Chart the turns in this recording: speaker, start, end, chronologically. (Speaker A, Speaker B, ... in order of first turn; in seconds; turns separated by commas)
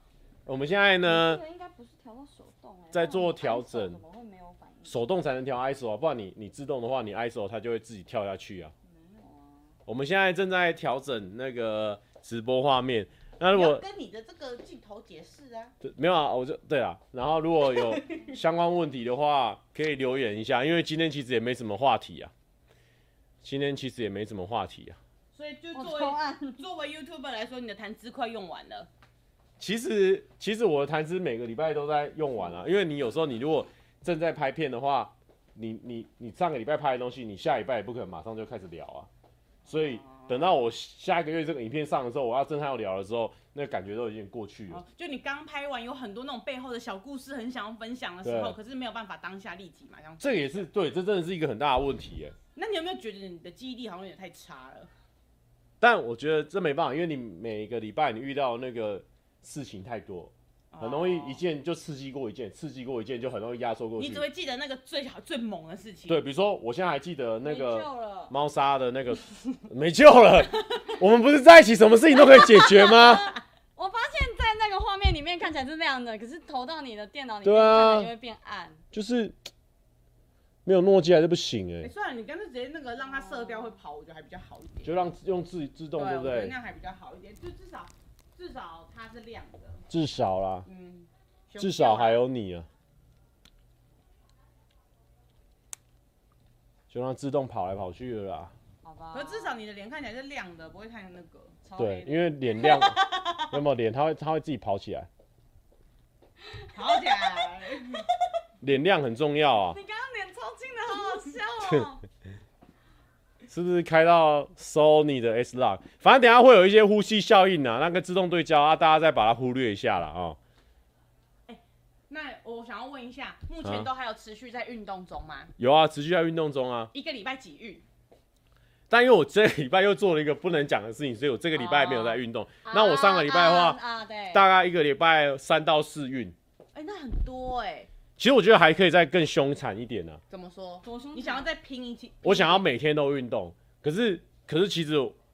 Speaker A: 0.5-1.4, Speaker B: 1.0-5.0, Speaker A: 2.9-4.0, Speaker A: 4.9-8.7, Speaker B: 8.9-9.7, Speaker A: 9.9-13.8, Speaker C: 13.5-15.7, Speaker A: 15.8-22.3, Speaker C: 17.7-18.3, Speaker A: 23.4-25.0, Speaker C: 25.3-28.9, Speaker B: 25.7-26.6, Speaker A: 29.6-39.1, Speaker C: 39.7-40.5, Speaker A: 39.7-44.8, Speaker C: 44.7-50.6, Speaker A: 48.2-48.5, Speaker A: 50.2-52.4, Speaker C: 52.5-54.9, Speaker A: 55.8-64.2, Speaker C: 60.7-61.4, Speaker C: 64.0-66.2, Speaker A: 66.1-73.3, Speaker B: 67.4-68.3, Speaker B: 72.2-78.8, Speaker A: 77.4-78.1, Speaker A: 78.9-79.4, Speaker A: 80.6-81.9, Speaker C: 81.8-85.0, Speaker B: 83.1-83.7, Speaker A: 84.8-86.5, Speaker C: 85.9-89.8, Speaker A: 89.9-90.7, Speaker C: 90.7-92.2, Speaker A: 91.6-92.7, Speaker A: 96.9-98.5, Speaker B: 98.8-99.6, Speaker C: 99.1-101.6, Speaker B: 101.6-102.2, Speaker A: 101.8-105.1, Speaker C: 102.6-103.5, Speaker B: 106.4-108.0, Speaker C: 106.7-108.0, Speaker A: 108.6-109.8, Speaker B: 109.7-112.0, Speaker A: 113.5-120.4, Speaker C: 121.5-125.5, Speaker A: 125.6-126.9, Speaker C: 126.9-127.8, Speaker A: 128.9-133.8, Speaker B: 131.5-134.4, Speaker A: 134.3-136.3, Speaker C: 136.7-137.9, Speaker A: 138.2-140.2, Speaker C: 140.3-142.6, Speaker B: 140.8-141.5, Speaker A: 142.2-145.2